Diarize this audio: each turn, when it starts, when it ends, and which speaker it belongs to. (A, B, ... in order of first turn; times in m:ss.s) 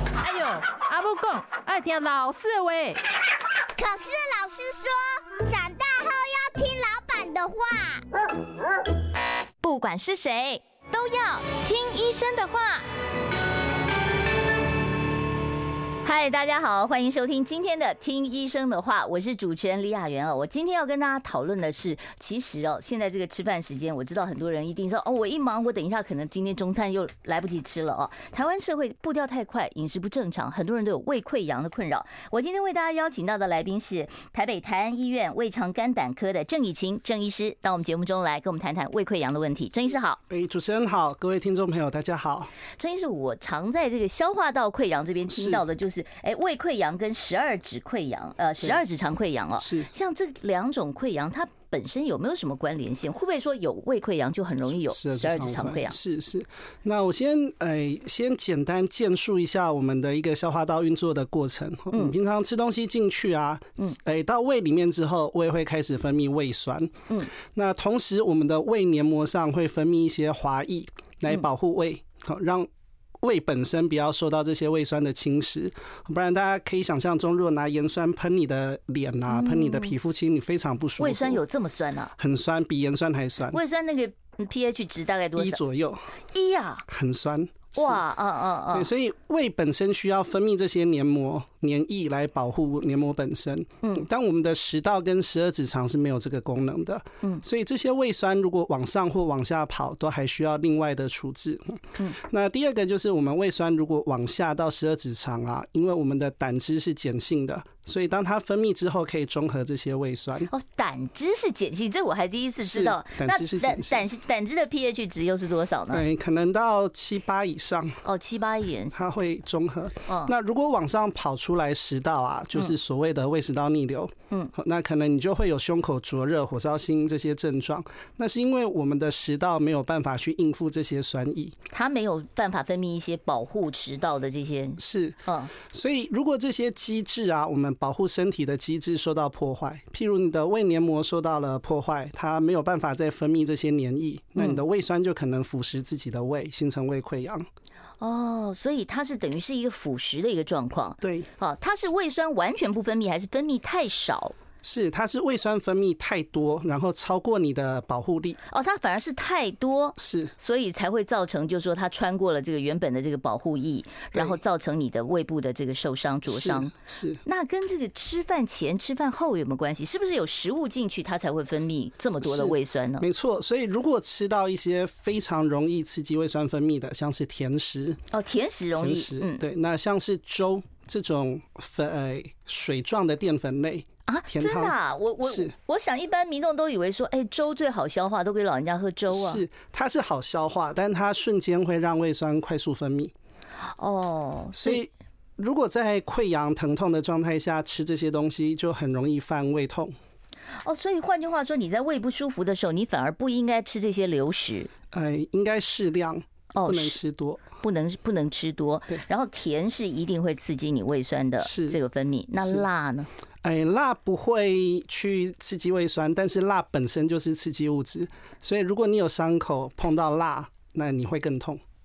0:00.2-0:03.0 A
0:03.8-0:08.0 B
0:09.6-0:12.8 C
0:16.0-0:40.2 C
0:40.3-0:42.5 D
0:42.8-0:56.0 C
0:45.3-0:45.6 D
0:49.6-0:49.9 D
0:54.9-1:12.7 D
1:13.2-1:21.4 D
1:19.3-1:19.9 C
1:21.0-1:22.1 C
1:22.2-1:23.6 D
1:23.5-1:25.6 C
1:25.4-1:26.1 D
1:26.3-1:26.8 C
1:26.9-1:28.0 D
1:27.8-1:28.9 C
1:28.7-1:50.5 D
1:50.5-1:56.0 C
1:52.6-1:54.0 D
1:55.9-1:58.0 D
1:58.0-1:59.0 C
1:58.9-2:11.6 D
2:00.1-2:00.3 C
2:11.7-2:15.5 C
2:14.8-2:27.5 D
2:28.0-2:34.3 C
2:31.0-2:31.3 D
2:34.6-2:38.4 D
2:38.5-2:46.7 C
2:40.0-2:40.3 D
2:44.1-2:44.4 D
2:46.3-2:47.2 D
2:47.2-2:53.0 C
2:52.2-2:58.0 D
2:58.1-2:59.4 C
2:58.8-3:05.5 D
3:04.1-3:09.4 C
3:09.1-3:13.1 D
3:13.8-3:14.8 C
3:14.5-3:19.9 D
3:20.6-3:24.7 C
3:24.9-3:27.4 D
3:26.5-3:27.0 C
3:27.6-3:33.1 C
3:31.4-3:31.8 D
3:33.4-3:41.6 D